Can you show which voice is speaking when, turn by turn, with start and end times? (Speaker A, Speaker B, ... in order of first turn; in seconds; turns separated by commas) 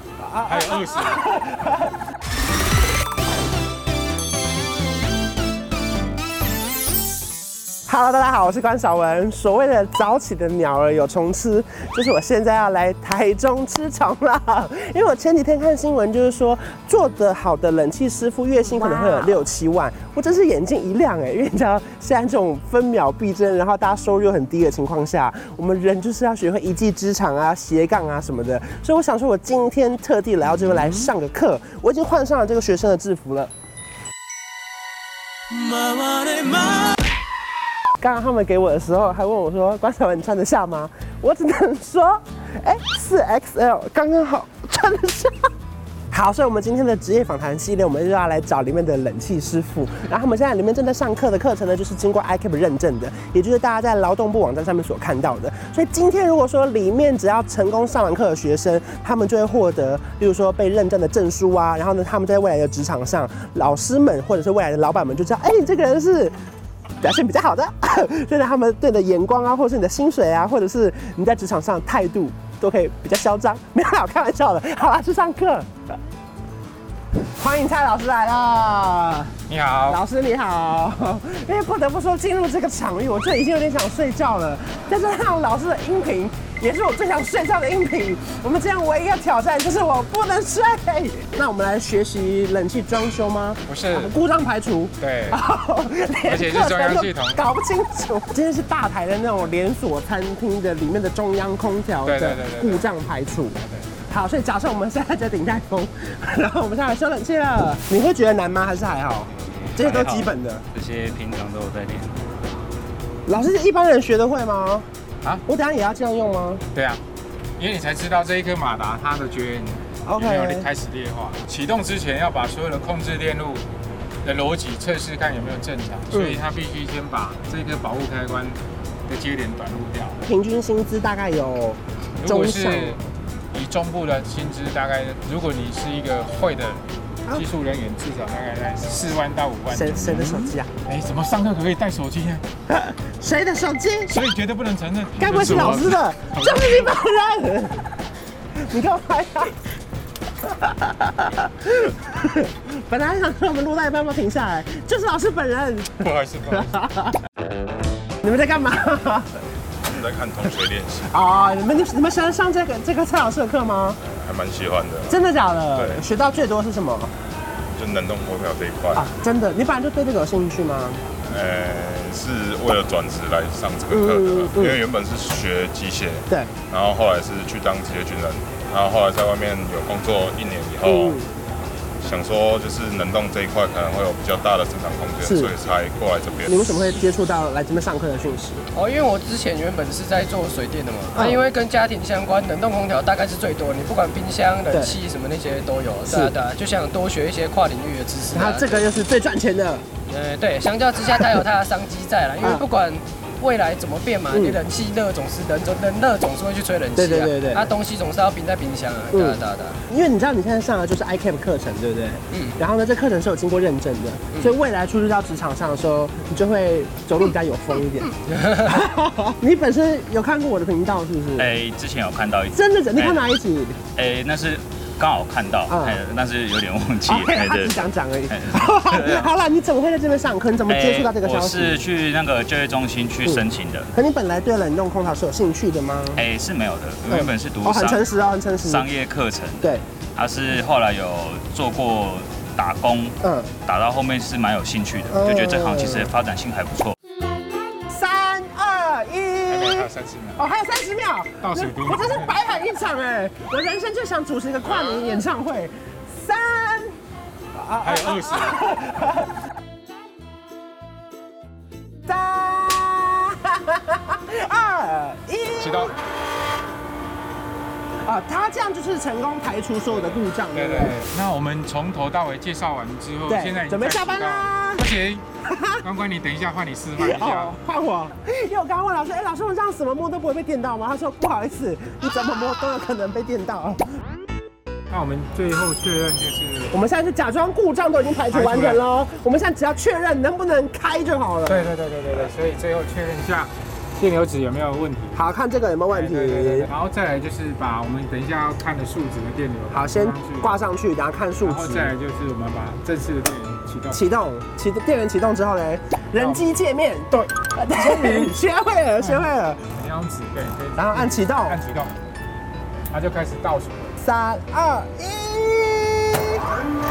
Speaker A: 0.2-1.9, Speaker B: 0.5-1.3, Speaker A: 7.9-33.5, Speaker A: 38.0-45.4, Speaker A: 46.1-66.3, Speaker A: 67.0-75.7, Speaker A: 77.4-103.6, Speaker B: 79.5-80.0, Speaker B: 93.7-94.2, Speaker B: 95.0-95.4, Speaker B: 96.2-97.5, Speaker B: 102.0-102.9, Speaker B: 103.6-103.9, Speaker A: 104.1-110.7, Speaker C: 109.8-112.1, Speaker A: 113.3-114.9, Speaker A: 115.5-116.6, Speaker B: 116.7-117.0, Speaker B: 117.6-123.7, Speaker A: 120.0-120.7, Speaker B: 124.2-130.2, Speaker A: 126.1-126.4, Speaker A: 130.3-133.0, Speaker B: 132.2-133.0, Speaker B: 133.5-142.4, Speaker A: 139.7-140.7, Speaker A: 142.7-144.2, Speaker B: 144.1-146.9, Speaker A: 145.2-147.8, Speaker A: 148.6-149.6, Speaker A: 150.5-157.1, Speaker B: 156.0-156.7, Speaker A: 158.2-159.3, Speaker D: 159.9-161.1, Speaker A: 161.1-164.0, Speaker D: 164.0-165.2, Speaker A: 165.1-167.1, Speaker D: 165.8-166.1, Speaker D: 167.8-169.1, Speaker A: 168.9-171.0, Speaker D: 171.3-181.2, Speaker A: 173.9-174.8, Speaker A: 180.8-181.3, Speaker D: 182.0-186.8, Speaker A: 185.2-185.5, Speaker A: 186.5-188.6, Speaker E: 188.7-198.9, Speaker A: 191.2-191.4, Speaker A: 196.1-196.3, Speaker A: 198.3-199.9, Speaker E: 200.1-209.8, Speaker A: 204.3-204.6, Speaker A: 207.0-207.7, Speaker A: 209.1-221.5, Speaker E: 212.3-212.6, Speaker E: 218.4-218.6, Speaker C: 221.4-223.2, Speaker A: 222.5-223.8, Speaker C: 223.9-229.3, Speaker A: 225.7-226.0, Speaker A: 227.1-231.8, Speaker C: 230.7-233.9, Speaker A: 233.2-236.2, Speaker C: 236.2-238.1, Speaker A: 237.1-238.9, Speaker C: 238.6-246.9, Speaker A: 243.2-243.5, Speaker A: 245.1-246.1, Speaker A: 247.9-257.0, Speaker B: 249.5-250.4, Speaker B: 251.4-252.3, Speaker A: 257.6-259.3, Speaker B: 257.8-258.6, Speaker A: 262.1-265.9, Speaker B: 265.6-265.9, Speaker A: 268.1-271.0, Speaker B: 270.1-275.3, Speaker A: 273.3-274.9, Speaker A: 275.4-275.8, Speaker B: 275.8-277.6, Speaker A: 277.0-283.9, Speaker B: 284.9-286.8, Speaker A: 286.7-291.7, Speaker B: 288.3-288.8, Speaker B: 291.4-295.2, Speaker A: 295.1-296.7, Speaker B: 295.9-300.6, Speaker A: 299.7-301.9, Speaker B: 301.4-304.0, Speaker A: 303.9-309.6, Speaker B: 306.2-306.5, Speaker B: 307.8-308.3, Speaker B: 309.0-311.9, Speaker A: 310.8-311.6, Speaker B: 312.9-314.0, Speaker A: 314.0-316.4